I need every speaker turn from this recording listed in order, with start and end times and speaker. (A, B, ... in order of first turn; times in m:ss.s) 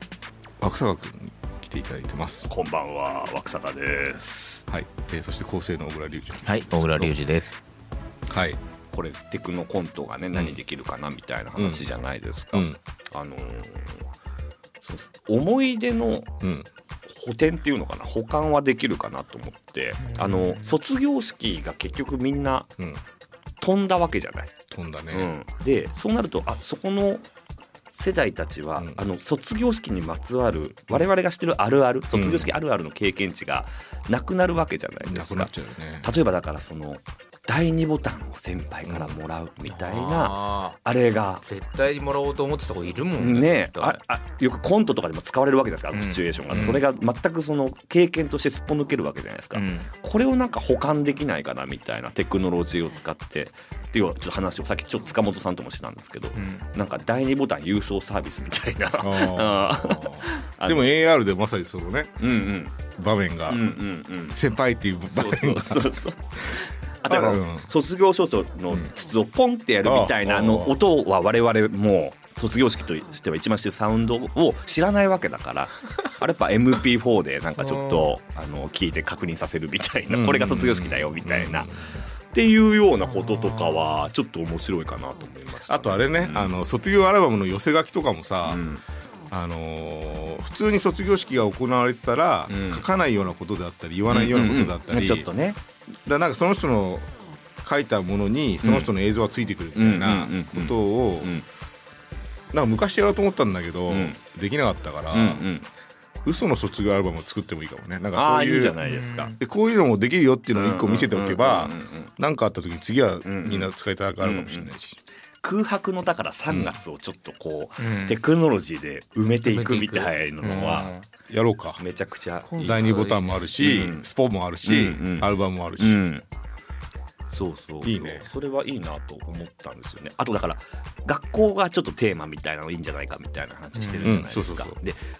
0:00.6-0:02.5 A
0:02.5-0:04.6 B
0:04.7-0:07.1 A
0:06.4-0:07.6 C
0:08.3-0:08.6 A
0:08.9-0:14.1 B
0:11.6-0:11.8 A
0:12.5-0:12.8 A
0:14.8-0:16.3 B
0:16.4-0:16.7 A
0:17.1-0:22.7 B
0:20.0-0:20.7 C
0:23.6-0:24.5 B
0:24.7-0:25.3 A
0:25.1-0:27.3 B
0:28.0-0:41.4 B
0:32.1-0:32.5 A
0:35.0-0:36.1 A
0:38.9-0:39.1 A
0:39.7-0:40.8 C
0:41.4-0:44.0 C
0:43.2-1:00.9 B
0:45.9-0:46.8 C
0:49.5-0:49.9 C
0:56.4-0:56.6 C
0:59.0-1:02.2 A
1:02.2-1:02.8 B
1:03.0-1:03.6 A
1:03.5-1:04.4 B
1:04.4-1:05.8 A
1:05.1-1:21.7 B
1:07.1-1:07.7 A
1:09.8-1:10.8 A
1:17.6-1:18.1 C
1:20.1-1:22.0 A
1:22.3-1:26.5 B
1:23.1-1:23.9 C
1:25.7-1:28.6 A
1:28.4-1:28.8 B
1:29.3-1:35.3 A
1:32.5-1:32.8 B
1:34.1-1:35.6 B
1:36.0-1:37.1 A
1:37.6-1:41.4 A
1:38.6-1:38.9 B
1:39.7-1:41.4 B
1:42.5-1:45.5 A
1:43.9-1:44.2 B
1:45.1-1:45.7 B
1:46.2-1:48.8 A
1:48.1-1:49.4 B
1:48.8-1:49.4 C
1:49.4-1:55.0 A
1:50.5-1:52.1 B
1:53.2-1:54.7 B
1:55.4-2:00.9 B
1:56.5-1:56.7 A
1:57.8-1:58.2 C
1:59.4-2:01.0 C
2:01.3-2:01.8 A
2:01.8-2:03.0 B
2:02.4-2:03.5 C
2:02.6-2:06.0 A
2:03.5-2:04.1 B
2:04.6-2:06.2 B
2:07.3-2:15.0 B
2:07.8-2:08.3 A
2:13.8-2:14.2 C
2:14.0-2:14.8 A